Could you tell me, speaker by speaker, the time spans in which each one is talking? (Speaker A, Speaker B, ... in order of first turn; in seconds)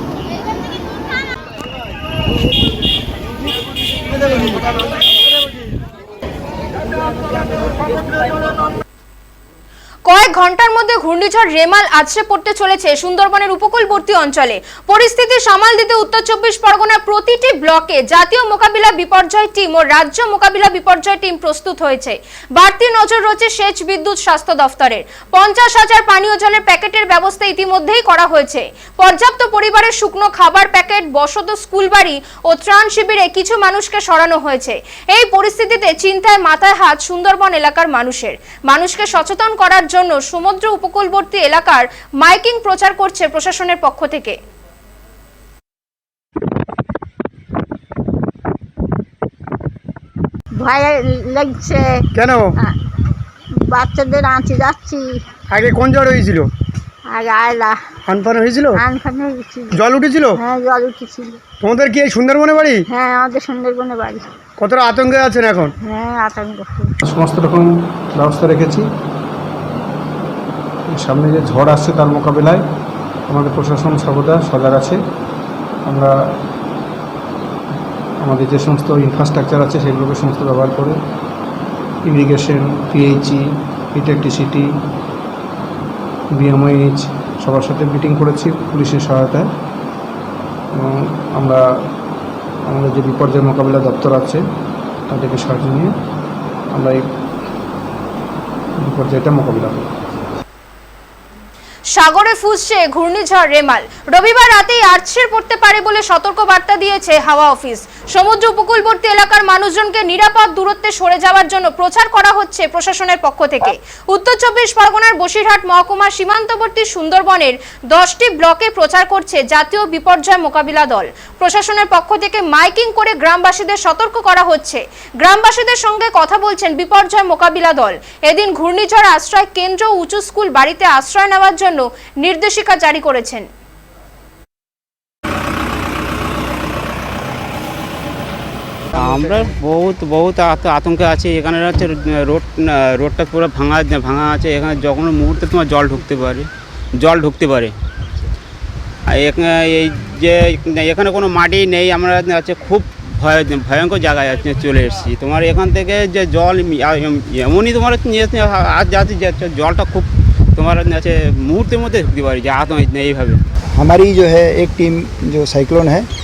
Speaker A: 10.1-44.4, 101.9-133.4
Speaker B: 50.5-52.0, 53.6-55.2, 57.1-57.8, 58.7-59.8, 60.3-61.4, 62.9-64.3, 65.8-66.9
Speaker C: 52.2-52.5, 55.5-56.5, 58.1-58.8, 59.7-60.4, 61.6-62.8, 64.6-65.7
Speaker D: 67.0-68.9, 70.9-72.6, 73.3-75.0, 75.8-76.2, 78.2-81.0, 82.0-84.7, 86.3-89.5, 90.7-91.6, 92.7-94.4, 95.1-95.9, 96.7-97.0, 98.8-99.9
Speaker E: 138.9-147.8, 149.1-163.4
Speaker F: 163.7-166.1